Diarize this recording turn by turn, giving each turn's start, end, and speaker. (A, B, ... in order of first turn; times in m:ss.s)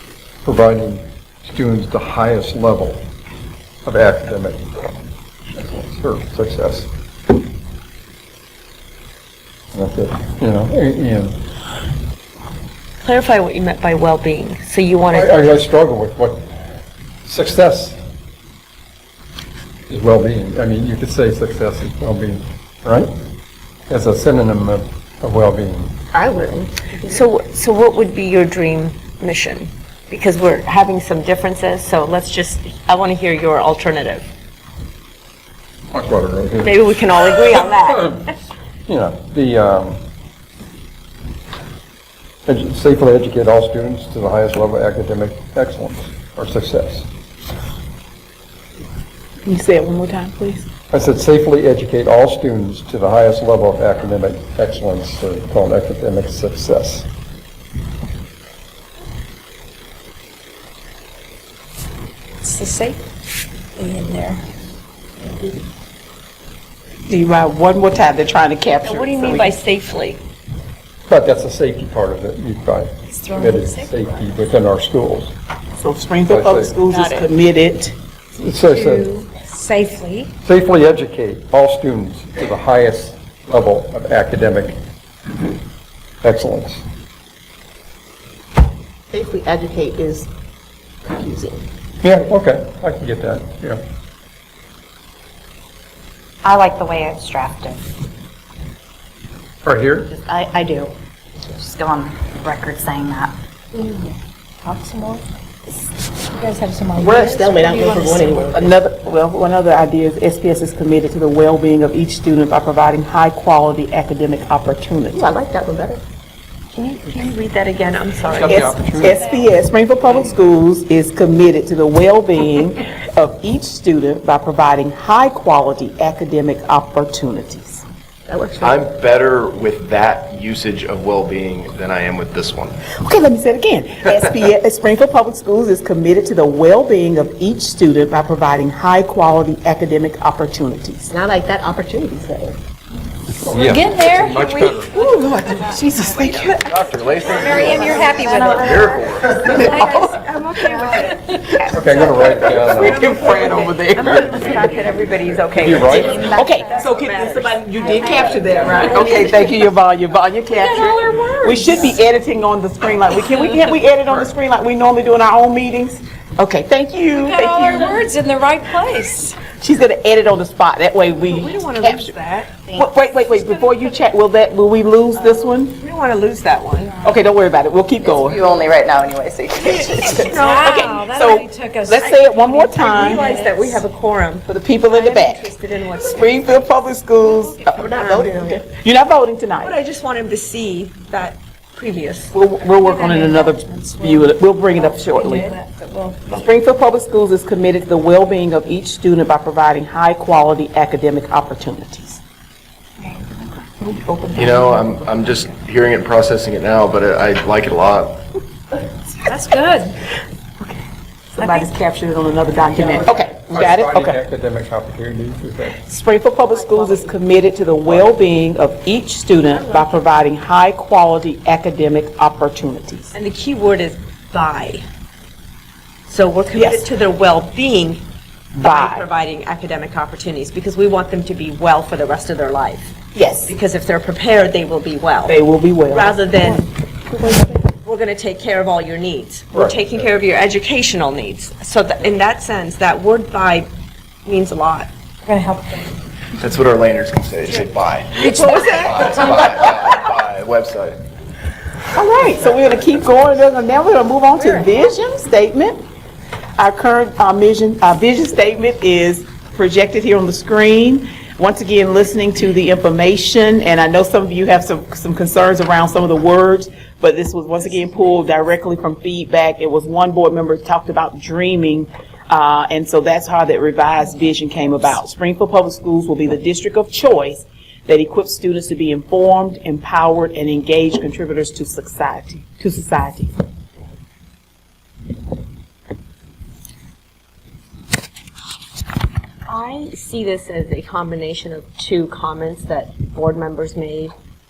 0:00.4-0:03.1 A
0:03.8-0:04.6 A
0:05.5-0:06.9 A
0:09.7-0:11.4 A
0:13.0-0:15.6 B
0:15.1-0:16.5 A
0:17.2-0:18.0 A
0:19.9-0:23.1 A
0:23.9-0:26.0 A
0:26.1-0:26.7 C
0:27.0-0:34.3 B
0:35.9-0:36.8 A
0:36.6-0:38.2 B
0:37.3-0:38.2 A
0:38.9-0:40.0 A
0:42.4-0:47.1 A
0:49.4-0:50.6 D
0:50.9-0:57.1 A
1:02.4-1:03.0 E
1:03.8-1:04.4 E
1:07.1-1:09.6 D
1:08.8-1:10.2 B
1:11.1-1:15.3 A
1:13.1-1:13.9 E
1:15.8-1:17.9 D
1:16.3-1:16.8 A
1:16.9-1:17.3 B
1:18.4-1:19.2 A
1:18.7-1:20.3 E
1:20.4-1:24.8 A
1:26.2-1:26.8 A
1:29.1-1:30.2 C
1:31.2-1:31.5 C
1:32.0-1:33.8 A
1:36.6-1:37.6 F
1:39.6-1:40.1 A
1:40.4-1:40.9 F
1:41.5-1:42.3 C
1:41.5-1:43.3 F
1:43.8-1:44.1 E
1:44.6-1:45.0 E
1:46.3-1:48.4 E
1:47.0-1:48.7 C
1:47.3-1:48.4 F
1:48.1-1:55.2 D
1:55.1-1:56.0 C
1:56.8-1:58.9 B
1:58.3-1:59.2 A
1:58.4-2:07.8 D
2:08.3-2:08.8 C
2:08.6-2:12.8 G
2:13.0-2:21.1 D
2:21.2-2:21.6 C
2:21.2-2:22.5 F
2:23.4-2:24.9 A
2:23.5-2:24.9 E
2:24.9-2:26.7 D
2:26.2-2:26.6 B
2:26.5-2:29.8 G
2:27.2-2:31.6 E
2:28.2-2:29.5 F
2:29.6-2:30.0 D
2:29.7-2:31.1 B
2:31.7-2:33.2 A
2:32.6-2:34.8 D
2:32.8-2:38.9 B
2:32.9-2:33.4 E
2:35.6-2:36.2 A
2:35.9-2:36.9 E
2:36.2-2:48.1 D
2:37.8-2:39.5 E
2:40.5-2:41.9 E
2:47.2-2:49.4 E
2:49.5-2:52.2 D
2:51.2-2:52.5 B
2:52.7-2:55.8 D
2:55.7-2:57.0 B
2:57.0-2:58.5 D
2:58.0-3:00.0 C
2:59.6-3:03.3 D
2:59.6-3:00.9 B
3:00.0-3:03.8 E
3:02.9-3:06.7 B
3:04.5-3:05.5 D
3:06.0-3:09.7 D
3:07.3-3:07.6 E
3:07.8-3:08.5 B
3:08.0-3:08.4 C
3:08.1-3:08.6 F
3:09.6-3:12.4 B
3:12.3-3:15.6 D
3:12.8-3:16.4 E
3:16.3-3:22.2 D
3:23.8-3:24.8 D
3:24.3-3:28.2 G
3:29.2-3:30.0 E
3:31.3-3:34.2 D
3:31.4-3:31.7 E
3:33.5-3:35.8 A
3:35.8-3:43.1 D
3:36.5-3:37.2 B
3:43.1-3:44.8 B
3:46.1-3:48.0 B
3:46.5-3:46.8 D
3:48.6-3:49.1 D
3:48.6-3:56.7 B
3:53.1-3:53.5 D
3:55.3-3:57.5 D
3:57.7-4:03.7 B
3:59.5-4:00.0 A
4:04.2-4:04.9 B
4:05.2-4:05.9 E
4:06.4-4:11.0 G
4:08.2-4:09.5 E
4:08.2-4:09.4 B
4:11.9-4:15.8 D
4:12.5-4:13.2 G
4:14.4-4:14.8 B
4:16.6-4:43.3 D
4:49.5-4:54.1 B